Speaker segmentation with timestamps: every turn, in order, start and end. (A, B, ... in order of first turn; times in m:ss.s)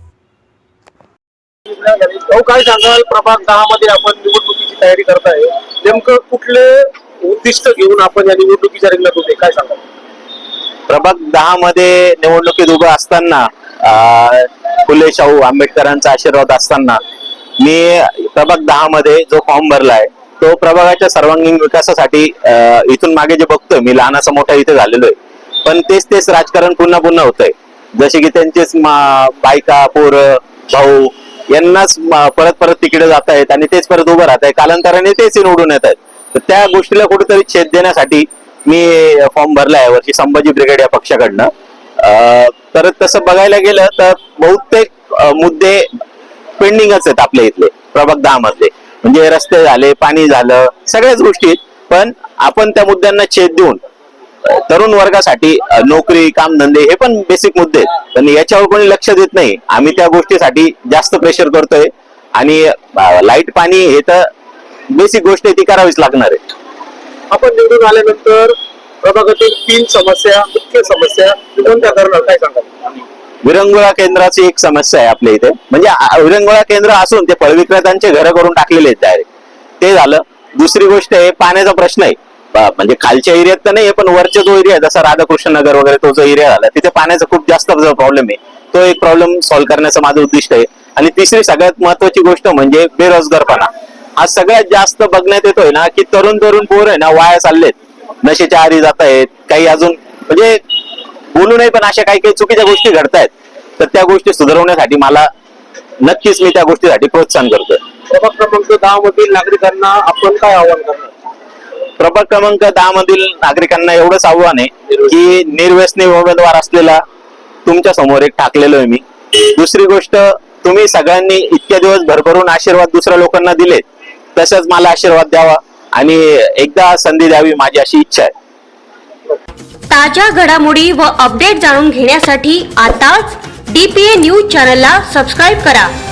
0:01.7-0:09.8 A
0:10.9-0:17.0 B
0:17.6-0:45.8 B
0:46.6-0:53.8 B
0:54.4-1:04.2 B
1:04.9-1:06.4 B
1:07.3-1:12.7 A
1:13.4-1:19.2 B
1:19.8-1:40.6 B
1:41.3-1:45.3 B
1:46.0-1:47.8 B
1:48.1-1:51.1 A
1:52.0-1:57.0 B
1:57.6-2:03.8 B
2:04.4-2:08.3 B
2:09.9-2:15.9 C